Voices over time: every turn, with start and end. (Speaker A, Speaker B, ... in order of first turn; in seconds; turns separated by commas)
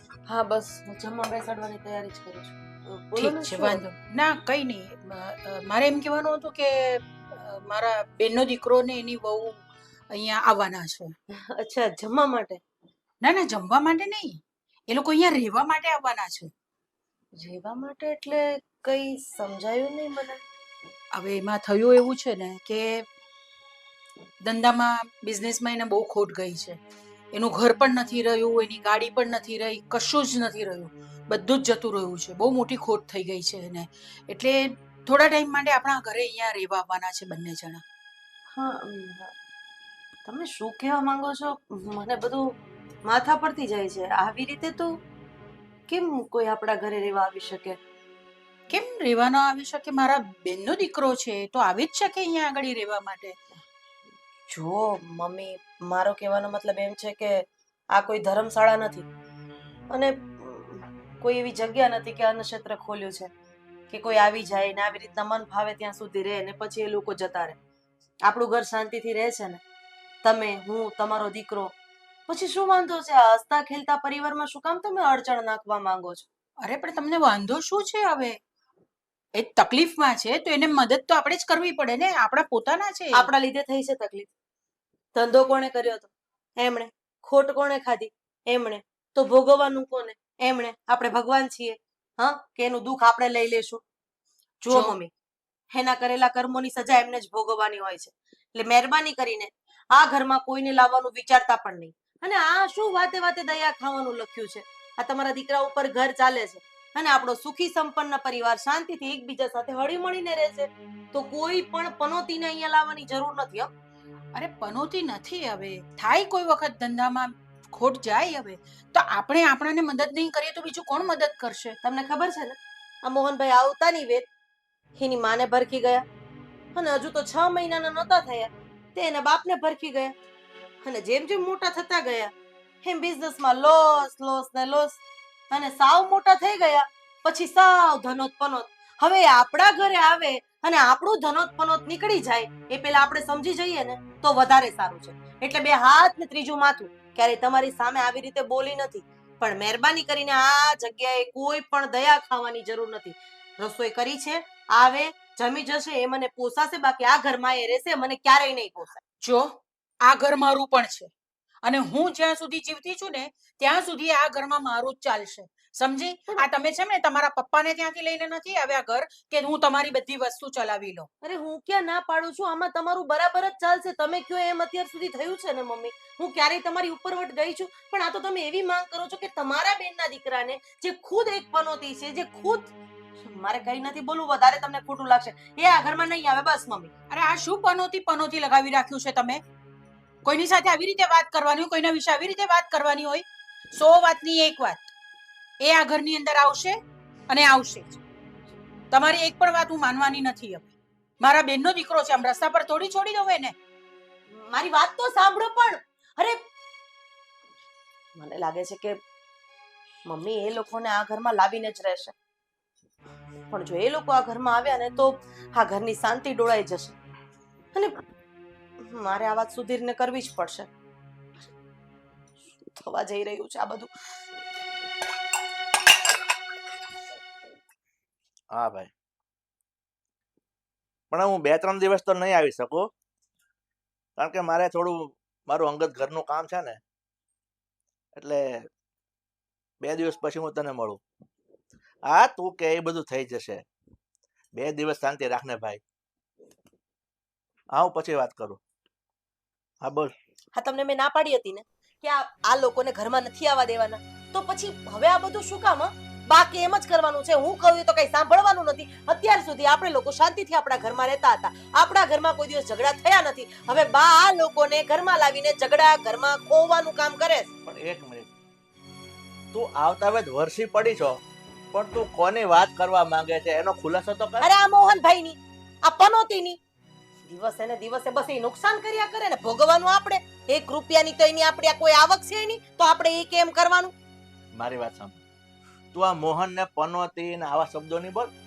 Speaker A: 0.3-3.8, Speaker B: 3.2-11.1, Speaker A: 11.4-12.6, Speaker B: 13.2-16.5, Speaker A: 17.4-20.4, Speaker B: 21.1-23.1, Speaker B: 24.4-26.8, Speaker B: 27.3-37.8, Speaker A: 38.5-39.3, Speaker A: 40.3-42.5, Speaker A: 43.0-45.0, Speaker A: 45.9-47.8, Speaker B: 48.7-53.4, Speaker A: 54.5-59.1, Speaker A: 59.9-63.3, Speaker A: 63.9-67.6, Speaker A: 68.3-69.6, Speaker A: 70.2-71.7, Speaker A: 72.3-76.2, Speaker B: 76.6-78.4, Speaker B: 79.4-83.3, Speaker A: 83.1-84.3, Speaker A: 85.2-93.8, Speaker A: 94.6-95.1, Speaker B: 94.7-95.0, Speaker A: 95.7-113.7, Speaker B: 114.3-121.8, Speaker A: 121.8-124.3, Speaker A: 125.0-126.0, Speaker A: 126.8-130.1, Speaker A: 130.8-132.3, Speaker A: 132.8-159.0, Speaker B: 159.2-161.1, Speaker B: 161.6-171.1, Speaker A: 171.2-186.9, Speaker B: 187.1-189.4, Speaker B: 190.2-194.9, Speaker B: 195.6-198.0, Speaker B: 198.9-203.6, Speaker A: 204.3-206.4, Speaker A: 208.2-209.0, Speaker A: 210.1-212.1, Speaker A: 213.5-217.0, Speaker A: 218.8-220.7, Speaker A: 222.7-223.9, Speaker C: 228.5-228.9, Speaker C: 231.1-232.9, Speaker C: 234.2-236.8, Speaker C: 238.2-238.7, Speaker C: 239.8-241.0, Speaker C: 242.1-243.6, Speaker C: 244.5-245.8, Speaker C: 247.7-248.6, Speaker C: 249.8-250.1, Speaker A: 250.6-267.5, Speaker C: 267.6-268.3, Speaker C: 269.5-271.2, Speaker C: 271.7-274.5, Speaker A: 274.4-276.6, Speaker A: 277.3-283.9, Speaker C: 284.6-285.2, Speaker C: 285.9-288.3